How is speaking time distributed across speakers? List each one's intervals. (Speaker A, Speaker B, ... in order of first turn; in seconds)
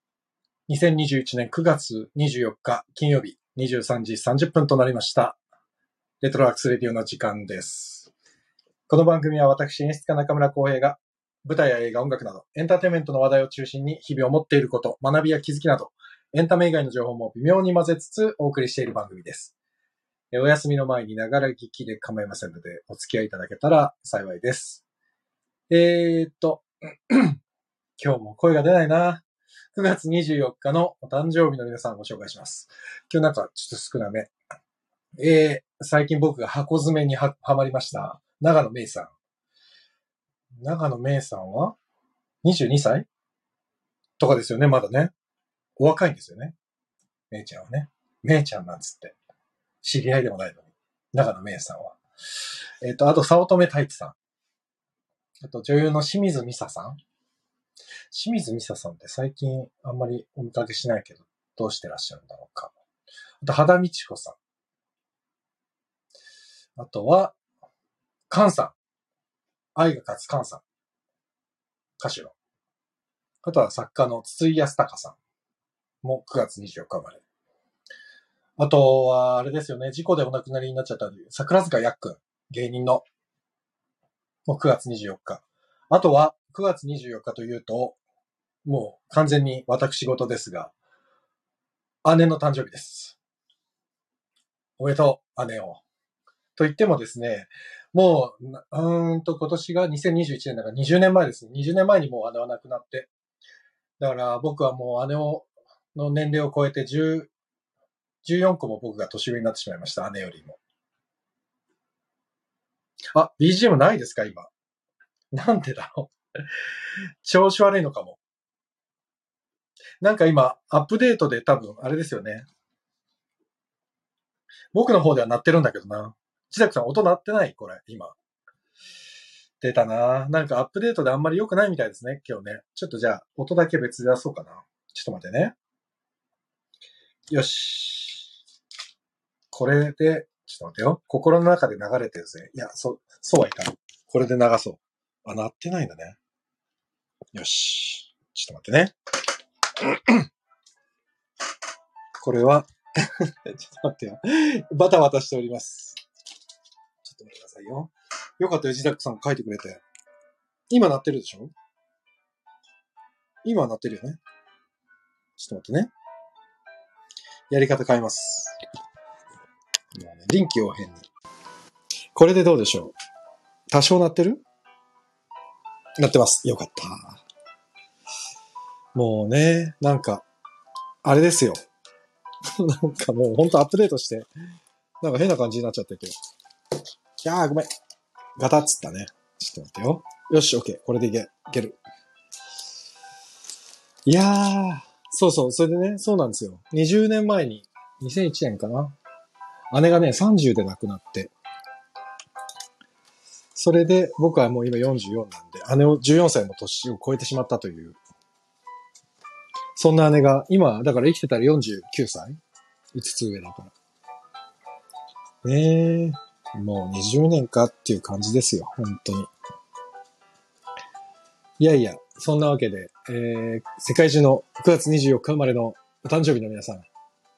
Speaker A: 0.7-5.4, 6.2-8.1, 8.9-19.5, 20.3-24.8, 25.7-27.4, 28.0-34.3, 35.2-39.1, 40.6-41.8, 42.4-43.1, 44.2-45.1, 45.8-46.5, 47.3-49.1, 49.8-52.0, 52.8-54.1, 55.4-57.0, 58.1-62.7, 63.4-64.4, 66.8-67.3, 68.3-68.7, 69.8-70.6, 72.0-72.3, 73.4-75.2, 76.0-77.2, 78.6-83.0, 84.5-88.0, 88.6-90.7, 92.0-93.2, 94.8-95.8, 96.5-103.1, 104.0-107.3, 108.2-110.6, 113.1-114.5, 115.3-116.1, 117.2-118.2, 120.0-122.5, 124.7-128.1, 129.6-135.5, 137.3-138.3, 139.5-146.2, 147.3-148.9, 149.8-150.3, 152.2-156.0, 157.0-159.8, 160.7-161.5, 163.4-164.2, 165.4-165.9, 167.5-168.6, 169.9-171.0, 172.1-172.9, 173.7-174.4, 176.0-177.2, 178.9-180.2, 181.0-181.6, 182.6-184.3, 185.0-186.1, 187.2-187.7, 188.4-191.8, 194.1-198.9, 199.7-201.3, 203.5-208.0, 209.8-212.4, 212.9-213.7, 215.4-219.3, 221.6-226.9